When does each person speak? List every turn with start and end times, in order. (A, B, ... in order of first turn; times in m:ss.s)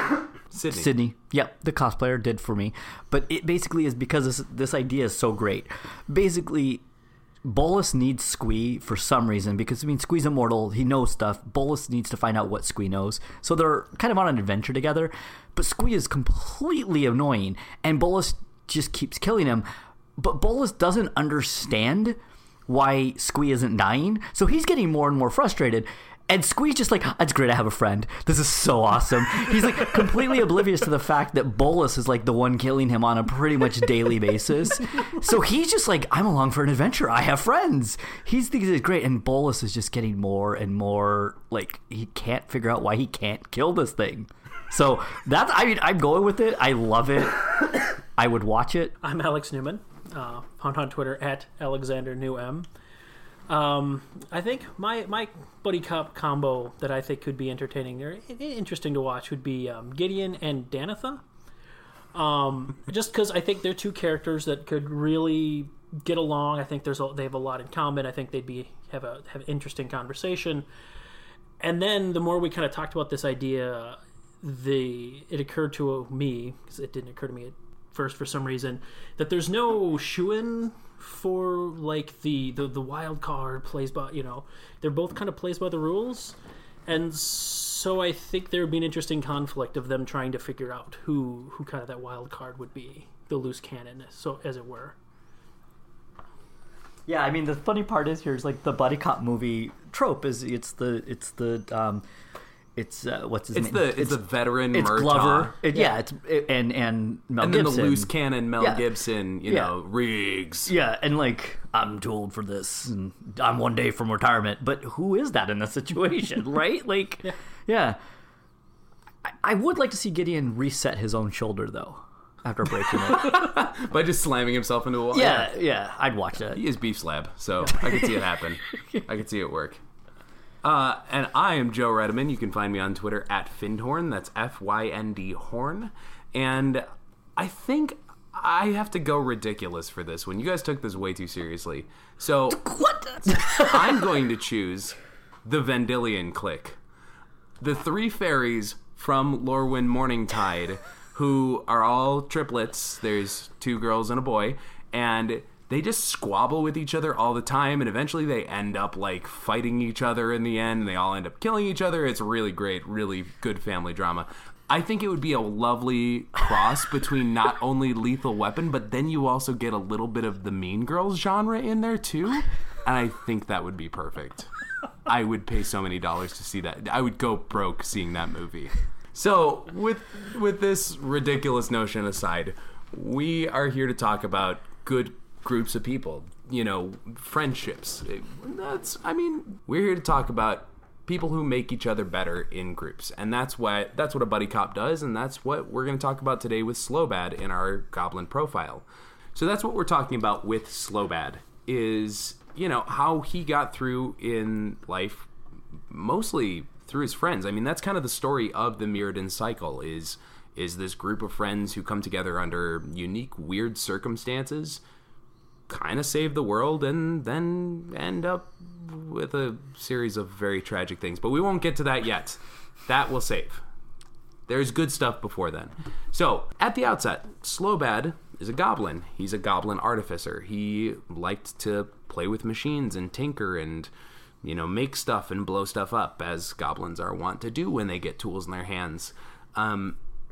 0:00.5-0:00.9 A
0:00.7-0:06.8 B
0:07.4-0:19.7 B
0:20.2-0:49.0 B
0:49.0-0:52.7 C
0:53.5-1:01.2 C
1:02.1-1:10.7 C
1:11.6-1:35.0 C
1:37.1-1:42.0 B
1:42.8-1:44.2 B
1:43.6-1:45.6 A
1:44.7-1:48.8 B
1:47.4-1:50.7 A
1:49.5-1:49.7 B
1:50.7-1:58.0 B
1:59.2-2:03.5 B
2:03.0-2:05.6 A
2:05.1-2:06.6 B
2:06.5-2:09.8 A
2:10.6-2:16.8 A
2:17.4-2:22.7 A
2:22.5-2:24.0 B
2:23.3-2:26.8 A
2:27.6-2:54.5 A
2:55.0-3:25.3 A
3:25.9-3:34.8 A
3:35.7-3:43.6 A
3:44.5-3:53.9 A
3:54.4-4:00.0 A